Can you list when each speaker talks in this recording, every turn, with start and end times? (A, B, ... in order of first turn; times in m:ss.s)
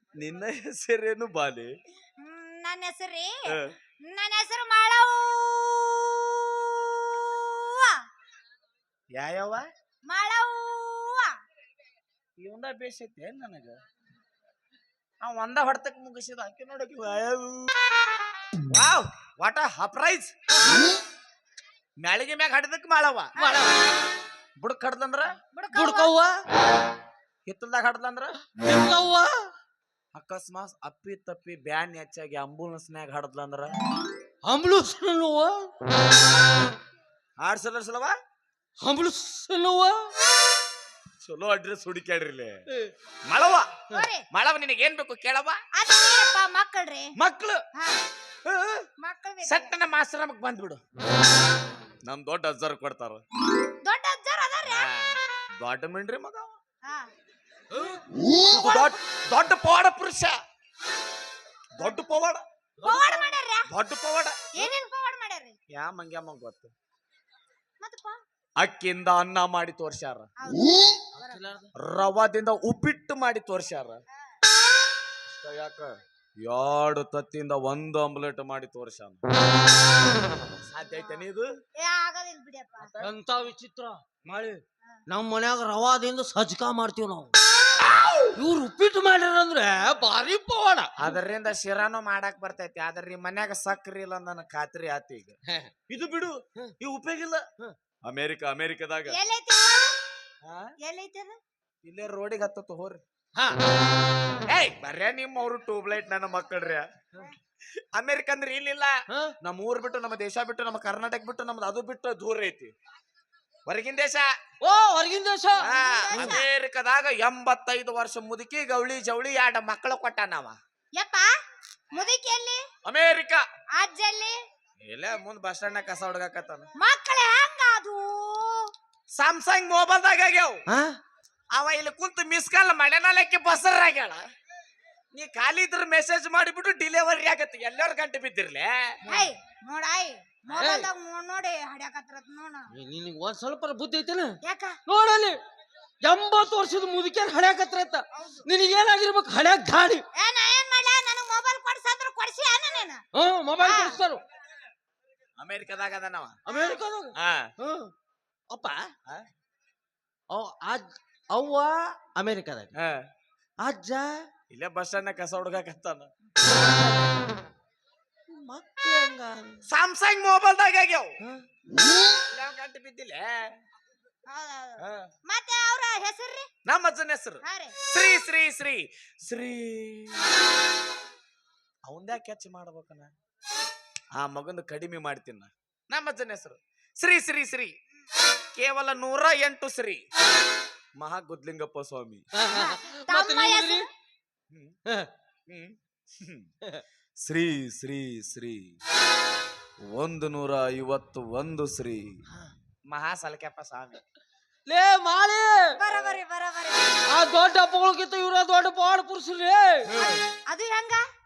0:00.2-0:01.7 A
0:02.2-0:08.0 B
0:03.5-0:03.7 A
0:09.2-0:09.6 A
0:10.1-0:11.4 B
0:12.4-0:13.8 A
0:15.2-0:17.7 A
0:18.7-0:20.3 A
0:22.0-0:23.3 A
0:23.4-0:23.7 B
0:23.4-0:23.8 C
0:24.6-0:25.3 A
0:25.5-0:26.1 B
0:25.7-0:26.4 C
0:27.5-0:28.4 A
0:28.6-0:29.5 C
0:30.1-0:33.8 A
0:34.5-0:35.7 C
0:37.4-0:38.2 A
0:38.8-0:40.1 C
0:41.2-0:42.6 A
0:43.3-0:43.7 A
0:43.9-0:44.3 B
0:44.3-0:45.6 A
0:45.8-0:47.1 B
0:47.2-0:47.6 A
0:47.8-0:48.0 B
0:48.4-0:48.9 A
0:49.0-0:49.7 B
0:49.4-0:50.8 A
0:52.0-0:53.2 A
0:53.8-0:54.9 B
0:54.7-0:56.6 A
0:57.8-0:58.0 C
0:58.5-1:00.4 A
0:58.5-0:58.9 B
1:01.8-1:02.4 A
1:02.8-1:03.3 C
1:02.8-1:03.7 B
1:03.7-1:04.4 A
1:04.5-1:05.6 B
1:05.8-1:06.7 A
1:07.8-1:08.2 B
1:08.6-1:10.3 A
1:10.4-1:11.1 B
1:11.1-1:11.7 C
1:11.8-1:14.0 A
1:15.3-1:19.2 A
1:20.6-1:21.5 A
1:20.9-1:21.2 B
1:21.8-1:22.9 B
1:22.8-1:23.1 A
1:23.0-1:27.3 C
1:28.3-1:30.9 C
1:31.0-1:35.4 A
1:35.9-1:37.4 A
1:38.0-1:39.2 A
1:39.1-1:40.0 B
1:40.4-1:40.7 A
1:40.8-1:41.4 B
1:41.8-1:43.0 A
1:44.5-1:46.9 A
1:47.9-1:52.7 A
1:53.7-1:54.3 A
1:54.6-1:56.4 C
1:55.6-2:00.6 A
1:55.6-1:56.4 B
2:01.0-2:01.3 B
2:01.9-2:02.7 B
2:02.8-2:03.4 A
2:03.8-2:04.4 B
2:04.8-2:06.7 A
2:06.8-2:08.7 B
2:09.1-2:10.6 A
2:10.7-2:11.0 C
2:11.5-2:14.2 A
2:15.1-2:19.0 A
2:19.1-2:22.7 B
2:20.5-2:20.9 C
2:22.7-2:25.4 C
2:24.4-2:24.8 B
2:26.0-2:30.0 C
2:28.1-2:28.5 B
2:30.2-2:33.0 B
2:33.2-2:34.2 C
2:33.6-2:34.0 B
2:35.4-2:36.4 A
2:36.5-2:36.8 B
2:36.5-2:37.9 C
2:37.2-2:37.5 A
2:38.5-2:38.9 C
2:40.3-2:42.7 C
2:42.8-2:43.1 A
2:43.6-2:44.3 C
2:44.5-2:46.1 A
2:46.5-2:47.2 C
2:48.3-2:49.6 C
2:49.7-2:51.2 A
2:52.3-2:53.5 A
2:54.3-2:56.5 B
2:54.8-2:55.1 A
2:56.7-3:00.2 A
2:57.4-2:57.8 B
3:01.9-3:03.1 A
3:04.2-3:07.8 A
3:08.6-3:10.0 A
3:11.0-3:12.2 A
3:12.4-3:13.8 C
3:12.5-3:13.9 B
3:14.5-3:14.8 A
3:15.5-3:16.5 A
3:17.2-3:18.8 A
3:19.9-3:22.2 A
3:22.9-3:24.0 A
3:24.7-3:25.8 C
3:25.8-3:27.1 B
3:27.1-3:29.9 C
3:29.9-3:30.2 A
3:30.0-3:31.0 B